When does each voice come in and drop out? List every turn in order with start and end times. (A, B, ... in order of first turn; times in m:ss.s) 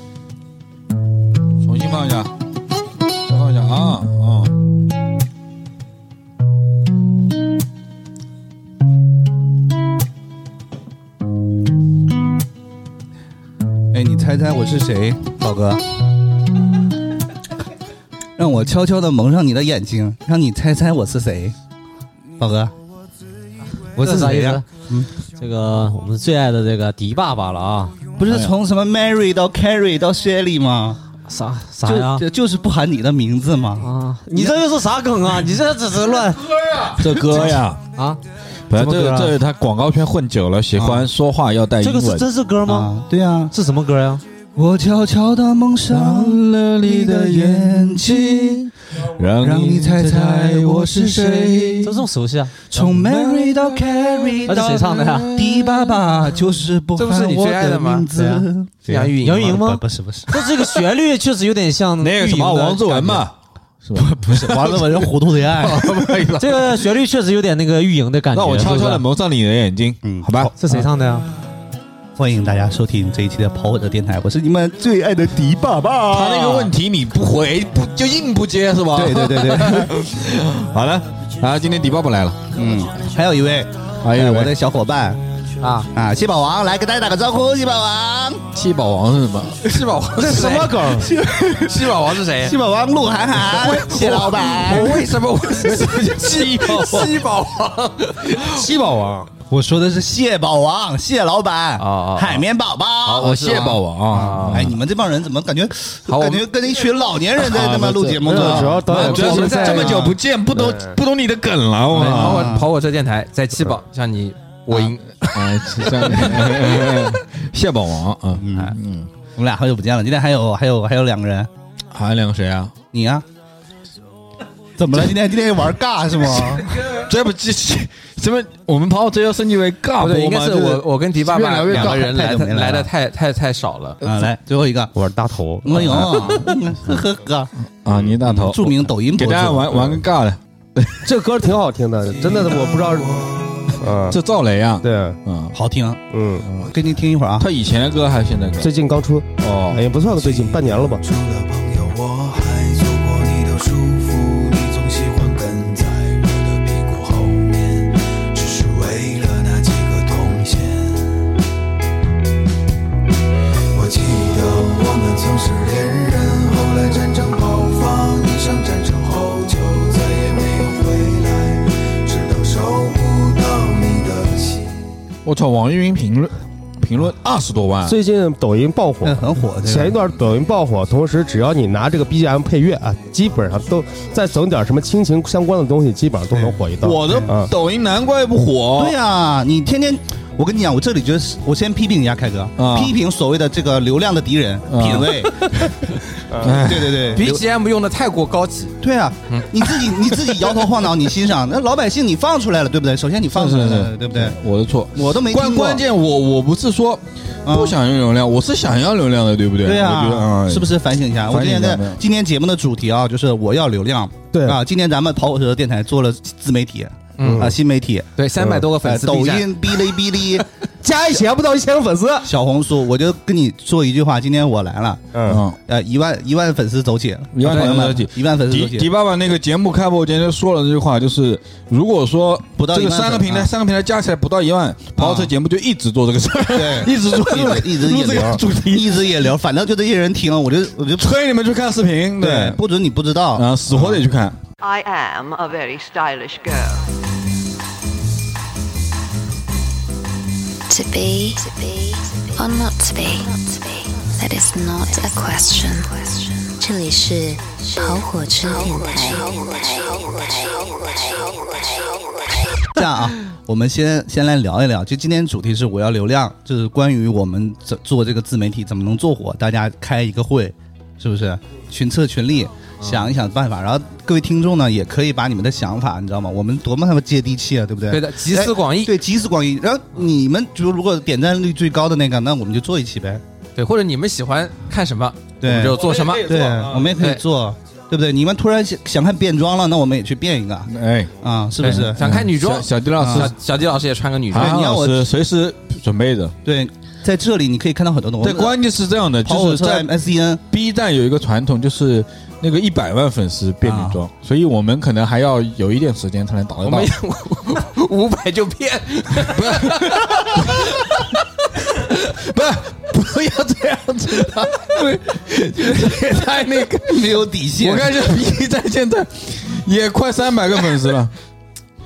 0:01.6-0:02.3 A
0:03.2-0:04.5 A
0:13.9-0:15.8 B
0:18.4-0:21.5 B
0:22.4-0:22.7 B
0:24.0-0:25.1 B
0:24.0-0:24.6 C
0:25.4-0:28.0 C
0:28.2-0:31.0 B
0:28.2-0:28.5 A
0:31.3-0:32.2 C
0:31.8-0:34.6 B
0:33.8-0:37.0 C
0:36.9-0:37.8 A
0:38.7-0:42.3 A
0:38.7-0:39.3 C
0:40.8-0:41.1 B
0:41.8-0:42.9 C
0:42.6-0:43.5 B
0:43.5-0:44.2 C
0:44.6-0:48.7 B
0:45.9-0:52.1 A
0:49.4-0:51.8 B
0:51.8-0:52.7 C
0:52.7-0:54.8 B
0:52.8-0:56.1 A
0:54.4-0:55.3 C
0:55.3-1:00.3 B
0:57.0-0:59.6 D
0:59.2-1:03.2 C
1:02.0-1:06.8 A
1:03.9-1:06.3 B
1:06.4-1:09.0 C
1:08.3-1:10.5 A
1:10.0-1:10.9 B
1:10.6-1:11.2 C
1:12.2-1:16.7 B
1:16.1-1:22.4 A
1:18.9-1:19.9 B
1:22.5-1:25.2 B
1:24.0-1:24.5 A
1:25.6-1:25.9 D
1:25.9-1:28.4 B
1:28.5-1:29.8 A
1:29.6-1:30.9 D
1:30.1-1:31.1 E
1:30.9-1:35.1 B
1:31.6-1:32.6 D
1:33.5-1:38.6 D
1:36.3-1:37.0 A
1:36.6-1:37.1 E
1:38.4-1:39.3 E
1:39.5-1:43.3 B
1:41.8-1:42.4 D
1:43.0-1:44.8 D
1:43.1-1:44.8 A
1:44.1-1:49.0 B
1:46.1-1:46.4 D
1:47.6-1:50.9 E
1:47.7-1:52.5 A
1:48.4-1:50.1 D
1:51.9-1:57.0 D
1:52.0-1:52.7 B
1:54.7-1:59.1 A
1:58.3-1:58.8 B
1:59.3-2:01.5 B
2:01.9-2:02.7 A
2:02.9-2:03.2 B
2:04.8-2:07.0 B
2:06.8-2:12.0 A
2:10.0-2:14.0 D
2:11.3-2:12.9 B
2:14.0-2:14.9 B
2:14.9-2:16.5 E
2:15.6-2:17.5 B
2:15.8-2:16.2 A
2:17.8-2:21.0 A
2:18.2-2:20.0 B
2:21.0-2:23.2 E
2:22.2-2:23.8 F
2:23.8-2:24.2 E
2:24.1-2:25.6 A
2:24.8-2:25.2 E
2:25.5-2:26.0 B
2:26.1-2:26.4 E
2:26.4-2:26.7 A
2:26.6-2:27.5 B
2:27.4-2:28.7 A
2:28.6-2:31.0 E
2:29.4-2:29.9 A
2:30.0-2:41.1 F
2:43.7-2:54.8 F
2:55.2-2:58.0 A
2:57.8-3:07.5 E
2:59.0-3:00.0 B
3:06.3-3:07.3 B
3:06.8-3:09.0 A
3:08.8-3:15.4 B
3:12.6-3:12.9 A
3:14.7-3:15.3 A
3:16.3-3:16.6 E
3:16.4-3:17.2 A
3:16.4-3:17.4 B
3:17.1-3:18.8 D
3:18.8-3:24.4 B
3:19.3-3:20.5 D
3:23.3-3:32.0 A
3:24.9-3:25.8 B
3:27.4-3:27.8 B
3:29.6-3:38.1 B
3:34.3-3:34.6 E
3:37.2-3:37.5 D
3:37.2-3:37.5 E
3:38.2-3:39.9 D
3:38.4-3:38.6 E
3:38.8-3:40.4 B
3:40.8-3:42.3 E
3:42.2-3:45.1 B
3:45.1-3:45.4 E
3:45.3-3:45.6 A
3:45.6-3:48.9 B
3:47.3-3:59.1 A
3:47.4-3:47.9 D
3:52.6-3:53.5 B
3:55.0-3:55.3 B
3:56.5-4:01.2 B
4:01.0-4:02.6 A
4:02.2-4:04.0 B
4:03.3-4:04.4 A
4:04.6-4:06.8 G
4:10.7-4:22.6 H
4:22.7-4:43.2 B
4:37.9-4:39.0 D
4:43.6-4:47.2 D
4:45.4-4:50.7 B
4:50.6-4:53.3 A
4:51.2-4:52.2 B
4:51.6-4:54.6 D
4:53.0-4:53.3 B
4:54.3-4:56.3 A
4:54.3-4:55.1 B
4:56.4-4:58.6 B
4:58.2-4:59.9 A
4:59.2-5:00.4 B
5:00.5-5:06.9 A
5:03.6-5:04.0 B
5:06.6-5:12.2 D
5:09.2-5:11.0 A
5:12.1-5:21.1 A
5:14.3-5:16.8 D
5:16.9-5:18.1 B